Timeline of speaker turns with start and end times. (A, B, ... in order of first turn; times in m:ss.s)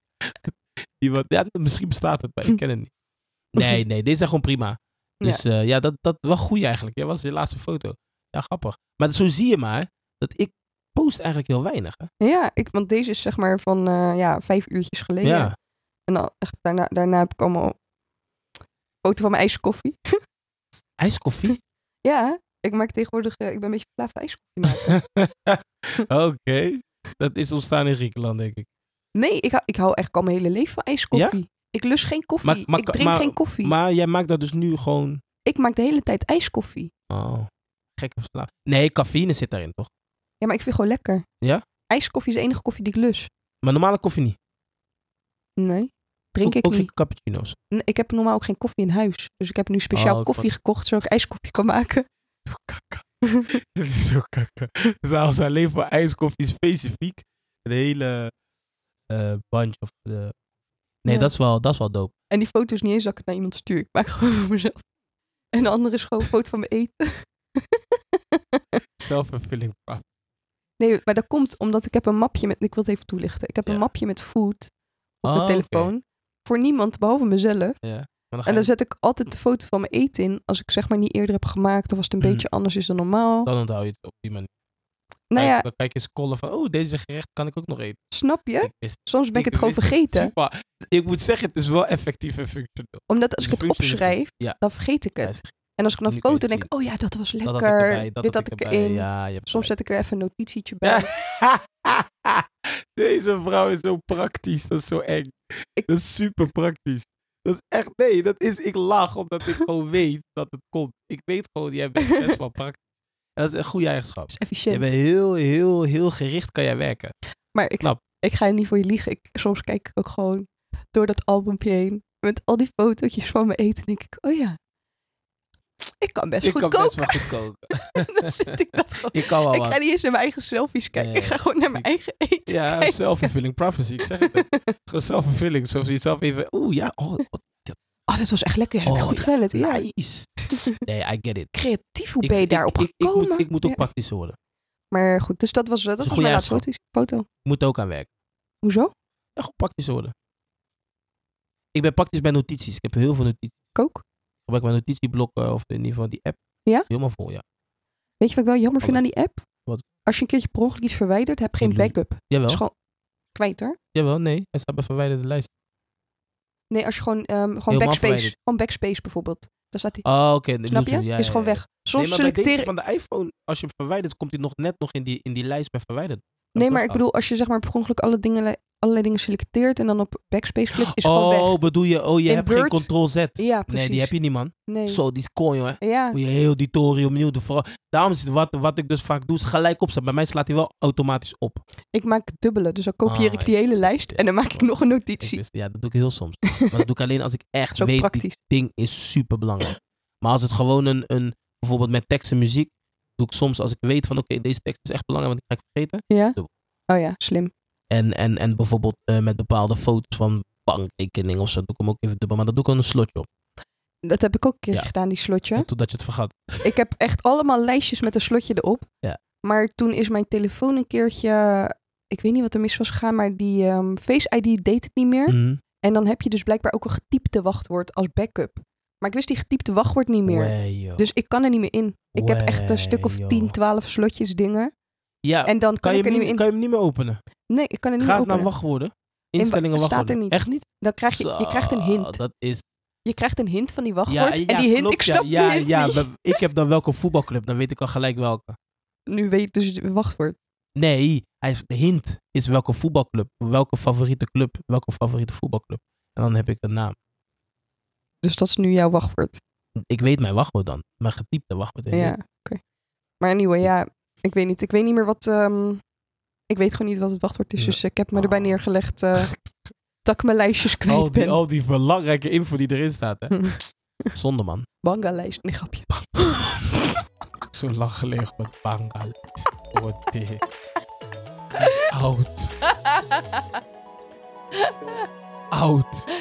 0:00.3-0:02.9 A
0:03.5-0:12.1 A
0:12.2-0:15.5 B
0:15.2-0:15.5 A
0:16.1-0:17.8 B
0:19.0-0:20.0 B
0:21.0-0:21.6 A
0:22.0-0:25.0 B
0:24.9-0:28.7 A
0:29.2-0:33.8 B
0:32.4-0:35.2 A
0:35.4-0:36.9 B
0:37.1-0:39.9 A
0:40.4-0:41.2 B
0:41.9-0:43.3 B
0:43.6-0:44.4 A
0:45.6-0:46.9 B
0:46.4-0:47.6 A
0:47.7-0:52.1 B
0:49.9-0:50.5 A
0:52.5-0:58.3 A
0:59.1-1:00.3 A
1:01.0-1:02.1 A
1:01.1-1:01.3 B
1:02.3-1:04.8 B
1:05.5-1:07.8 B
1:09.0-1:10.0 A
1:10.8-1:14.7 B
1:15.2-1:17.8 B
1:15.2-1:15.9 A
1:17.8-1:18.7 A
1:18.4-1:23.5 B
1:22.2-1:22.5 A
1:23.5-1:24.5 A
1:25.3-1:25.7 B
1:25.4-1:28.0 A
1:28.1-1:30.3 B
1:28.6-1:34.6 A
1:33.1-1:41.1 B
1:36.1-1:36.7 A
1:37.4-1:39.7 A
1:40.8-1:42.4 A
1:43.0-1:52.8 A
1:52.0-1:52.4 B
1:53.4-1:57.1 A
1:54.3-1:54.9 B
1:57.5-2:04.6 B
2:06.0-2:07.3 B
2:06.4-2:08.3 A
2:08.0-2:13.3 B
2:09.1-2:09.8 A
2:11.0-2:11.9 A
2:12.5-2:17.8 A
2:14.2-2:14.8 B
2:18.1-2:19.9 B
2:18.8-2:20.3 A
2:20.8-2:21.5 A
2:21.5-2:23.9 B
2:22.2-2:24.4 A
2:24.9-2:27.3 B
2:26.0-2:26.6 A
2:27.4-2:28.1 A
2:28.6-2:28.9 B
2:29.4-2:30.1 A
2:31.7-2:33.6 A
2:33.8-2:34.0 B
2:34.5-2:37.4 A
2:38.2-2:39.4 B
2:40.0-2:42.7 B
2:41.6-2:42.6 A
2:43.4-2:43.8 B
2:43.9-2:45.5 A
2:46.7-2:50.0 B
2:47.7-2:48.3 A
2:50.0-2:57.0 A
2:50.7-2:52.7 B
2:56.6-3:01.6 B
3:00.8-3:11.6 A
3:02.3-3:04.1 B
3:04.6-3:05.0 B
3:05.8-3:06.2 B
3:11.9-3:15.4 B
3:13.0-3:26.5 A
3:17.8-3:18.4 B
3:26.1-3:26.4 B
3:26.9-3:27.5 B
3:27.9-3:33.3 A
3:34.1-3:35.7 B
3:35.6-3:36.6 A
3:36.6-3:38.9 B
3:39.4-3:54.7 B
3:45.3-3:45.6 A
3:50.3-3:51.1 A
3:52.2-3:53.6 A
3:55.2-3:57.2 A
3:55.4-3:56.4 B
3:57.5-3:58.5 B
3:58.0-4:02.6 A
3:59.4-4:02.2 B
4:03.0-4:06.4 B
4:04.1-4:08.6 A
4:09.1-4:10.4 B
4:10.8-4:17.0 A
4:18.2-4:19.4 B
4:19.9-4:22.2 A
4:21.9-4:22.6 B
4:23.2-4:25.8 B
4:26.5-4:29.3 B
4:27.6-4:28.6 A
4:30.0-4:31.4 B
4:30.9-4:33.5 A
4:33.3-4:33.6 B
4:34.2-4:34.7 A
4:34.8-4:36.4 B
4:36.2-4:36.5 A
4:37.5-4:40.5 A
4:41.6-4:42.6 A
4:42.9-4:43.4 B
4:45.5-4:46.1 A